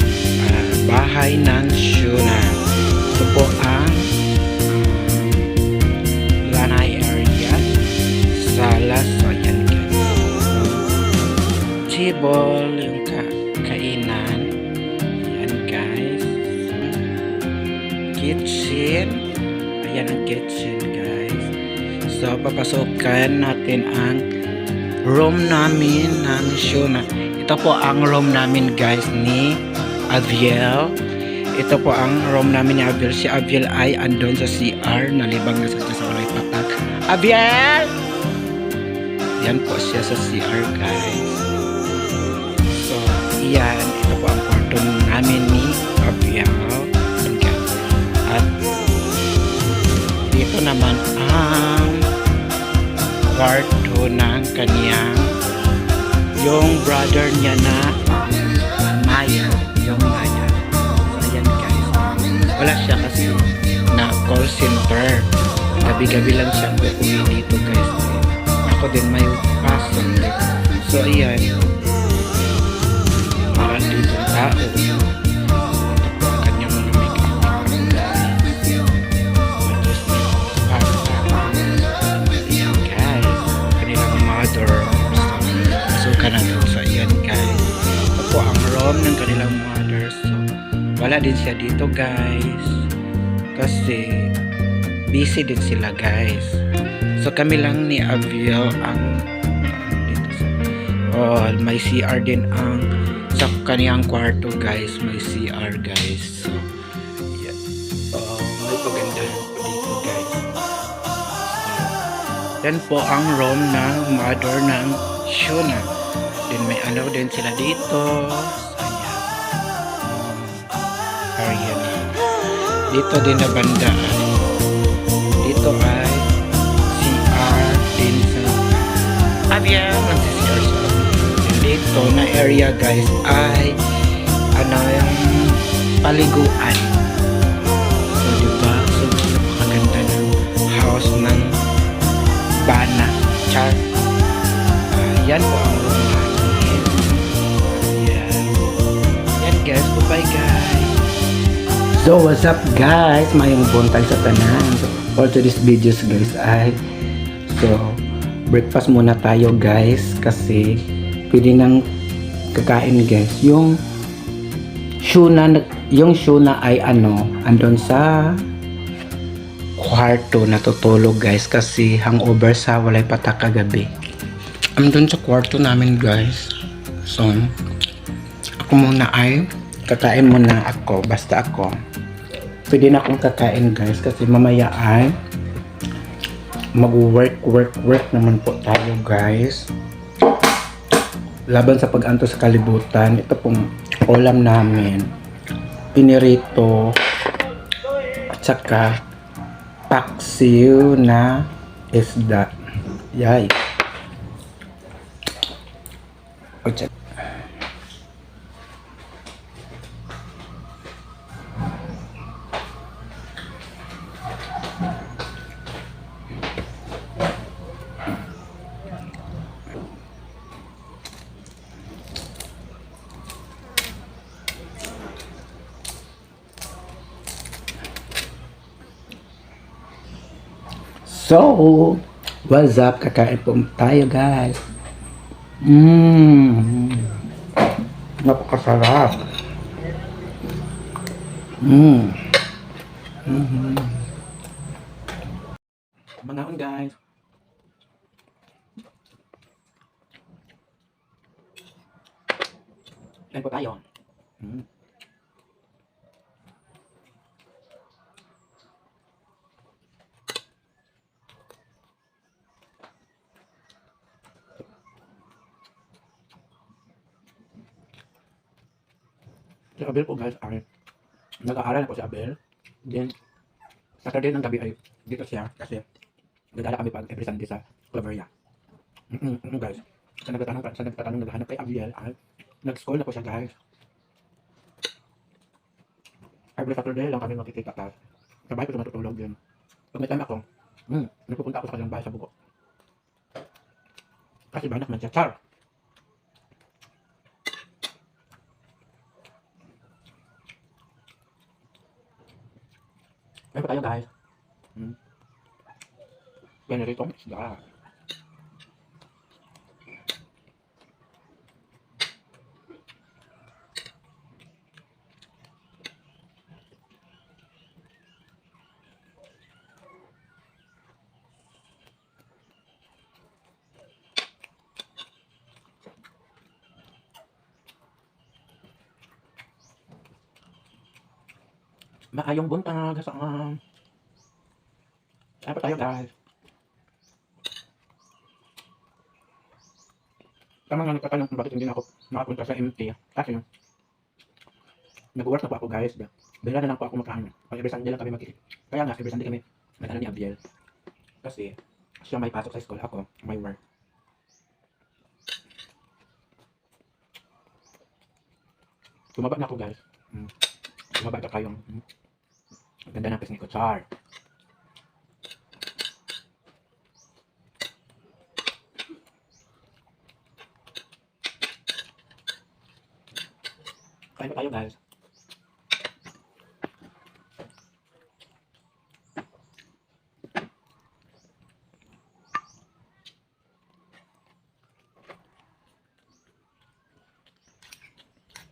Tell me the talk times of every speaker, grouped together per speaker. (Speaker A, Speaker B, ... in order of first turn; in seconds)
Speaker A: 0.4-4.1, 4.7-5.5, 6.4-7.8, 8.3-10.9, 11.9-14.6, 15.2-17.1, 18.1-19.3, 19.8-21.5, 22.1-24.3, 25.0-31.0, 31.6-38.0, 39.4-41.4, 42.7-47.7, 48.3-48.5, 50.2-52.1, 53.3-55.4, 56.3-58.1, 58.8-71.7, 73.4-75.1, 75.7-78.7, 79.6-90.5, 91.0-92.9, 93.5-94.3, 95.1-96.6, 97.2-100.6, 101.1-106.7, 107.3-107.6, 108.1-110.5, 111.5-112.0, 112.6-115.9, 116.5-119.3, 120.0-120.7, 121.3-122.3, 122.9-124.4, 125.4-126.3, 126.9-128.7, 129.5-133.8, 134.5-137.0, 138.1-141.6, 142.6-143.8, 144.9-148.6, 149.3-151.0, 151.9-156.8, 157.5-161.8, 162.5-163.8, 165.0-168.5, 169.8-173.9, 174.8-177.6, 178.6-181.8, 182.7-185.2, 186.7-189.7, 191.5-195.1, 195.9-197.0, 198.1-199.0, 199.9-202.5, 203.1-203.6, 206.6-206.9, 231.0-234.6, 235.6-237.2, 238.2-239.3, 241.6-242.4, 243.2-244.1, 246.2-247.0, 253.3-253.8, 269.8-270.6, 271.4-273.1, 274.1-275.9, 276.5-278.2, 279.1-283.5, 286.6-287.7, 288.6-289.4, 290.0-290.4, 291.1-292.3, 303.6-303.9, 306.7-307.6, 374.2-374.7
Speaker B: 274.1-274.8, 276.6-278.3, 280.3-282.1, 282.6-283.5, 286.6-287.9, 288.5-289.4, 289.9-292.3, 294.5-295.4, 303.6-304.1, 332.1-333.6, 335.4-336.1, 340.7-343.4, 345.1-350.4, 351.2-353.6, 359.1-360.3, 360.9-361.8, 362.9-363.9, 374.5-374.8